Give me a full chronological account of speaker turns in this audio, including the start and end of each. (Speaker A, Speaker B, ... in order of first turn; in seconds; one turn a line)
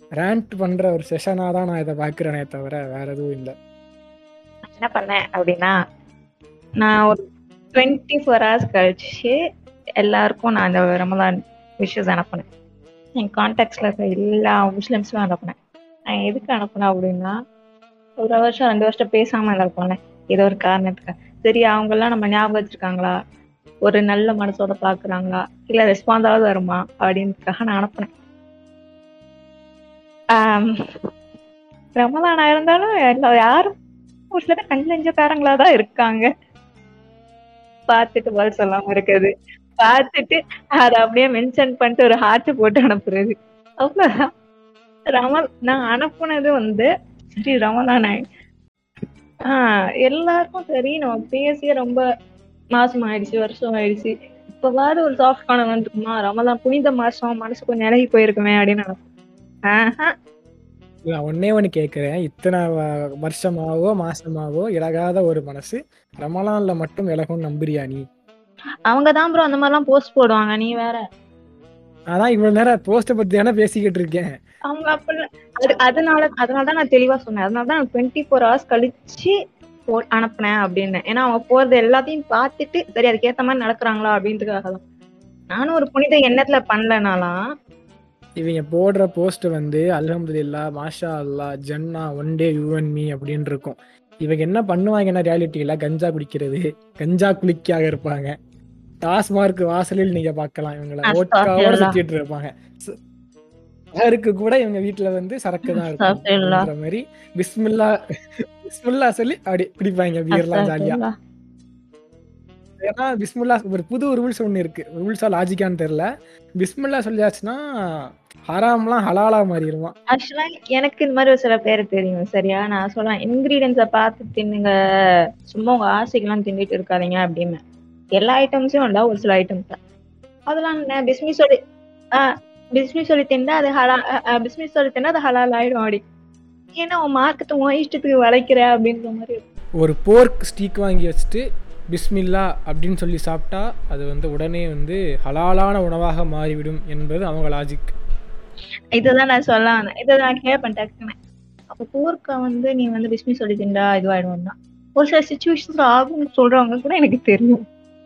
Speaker A: 0.2-3.5
Speaker B: 4.7-5.7
Speaker B: 6.8-7.2
Speaker B: 7.8-9.3
Speaker B: 10.0-12.5
Speaker B: 13.2-15.5
Speaker B: 16.1-17.3
Speaker B: 18.2-23.1
Speaker B: 23.9-28.1
Speaker B: 30.4-30.7
Speaker B: 32.0-33.7
Speaker B: 34.3-36.3
Speaker B: 37.9-44.1
Speaker B: 45.1-46.9
Speaker B: 47.4-48.2
Speaker B: 49.5-52.0
Speaker B: 52.7-59.0
Speaker B: 59.7-60.1
Speaker A: 61.0-68.0
Speaker B: 68.9-71.0
Speaker A: 72.1-74.3
Speaker B: 74.7-79.3
Speaker B: 79.9-84.8
Speaker B: 85.5-87.3
Speaker A: 88.4-98.3
Speaker A: 99.0-103.0
Speaker B: 101.1-102.0
Speaker A: 104.0-111.0
Speaker B: 105.7-106.7
Speaker B: 110.3-111.1
Speaker A: 112.8-116.1
Speaker A: 116.6-119.9
Speaker B: 120.1-124.7
Speaker B: 125.5-127.6
Speaker B: 128.2-129.8
Speaker B: 130.5-131.6
Speaker B: 132.1-136.0
Speaker B: 136.8-139.4
Speaker A: 139.8-147.9
Speaker B: 148.9-151.1
Speaker B: 151.7-157.6